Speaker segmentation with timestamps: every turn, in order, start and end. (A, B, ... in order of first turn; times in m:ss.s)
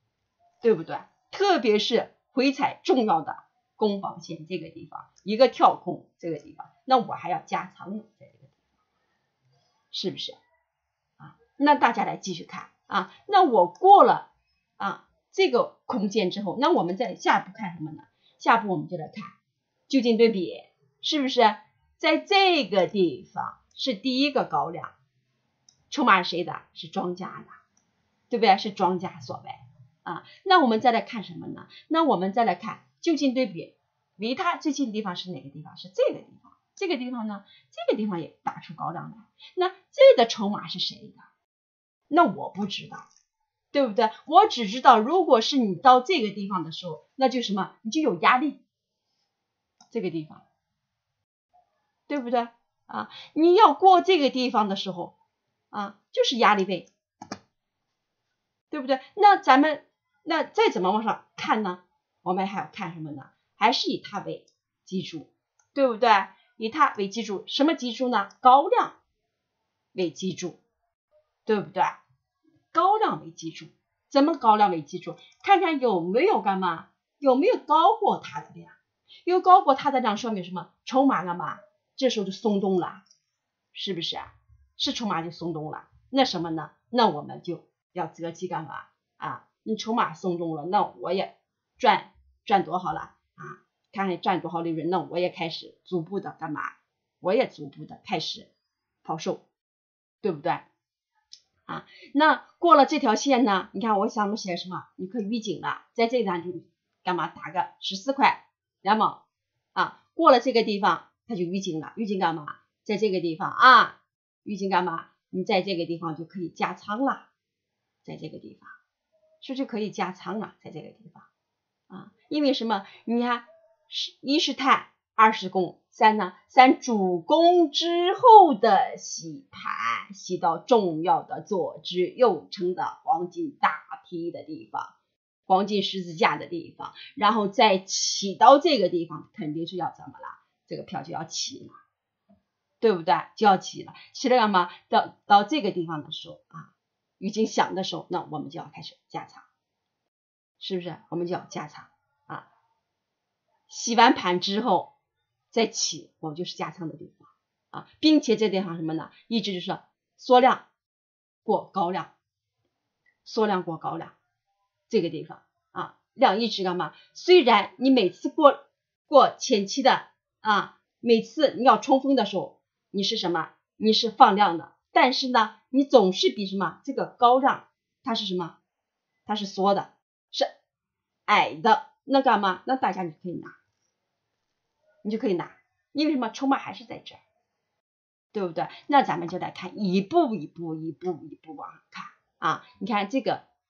0:00.6-0:08.5 A
0:09.9-0:10.4 A
0:11.2-0:14.3 A
0:14.8-0:19.3 A
0:19.9-0:24.9 A
0:25.9-0:27.6 A
0:28.3-0:41.2 A
0:42.1-0:43.1 A
0:43.7-0:48.6 A
0:49.9-0:50.4 A
0:52.1-0:55.1 A
0:55.7-0:56.9 A
0:58.7-1:09.0 A
1:09.9-1:10.6 A
1:11.4-1:12.0 A
1:12.7-1:23.0 A
1:23.7-1:38.5 A
1:39.0-1:39.4 A
1:40.2-1:40.6 A
1:41.7-1:49.2 A
1:49.7-1:57.3 A
1:58.0-1:58.8 A
1:59.4-2:01.3 A
2:01.9-2:14.9 A
2:15.5-2:21.8 A
2:22.8-2:29.4 A
2:30.6-2:32.5 A
2:33.7-2:34.9 A
2:35.5-2:40.6 A
2:41.4-2:42.1 A
2:43.2-2:44.1 A
2:44.9-2:58.6 A
2:59.2-3:00.5 A
3:01.2-3:03.5 A
3:05.0-3:07.2 A
3:08.3-3:13.4 A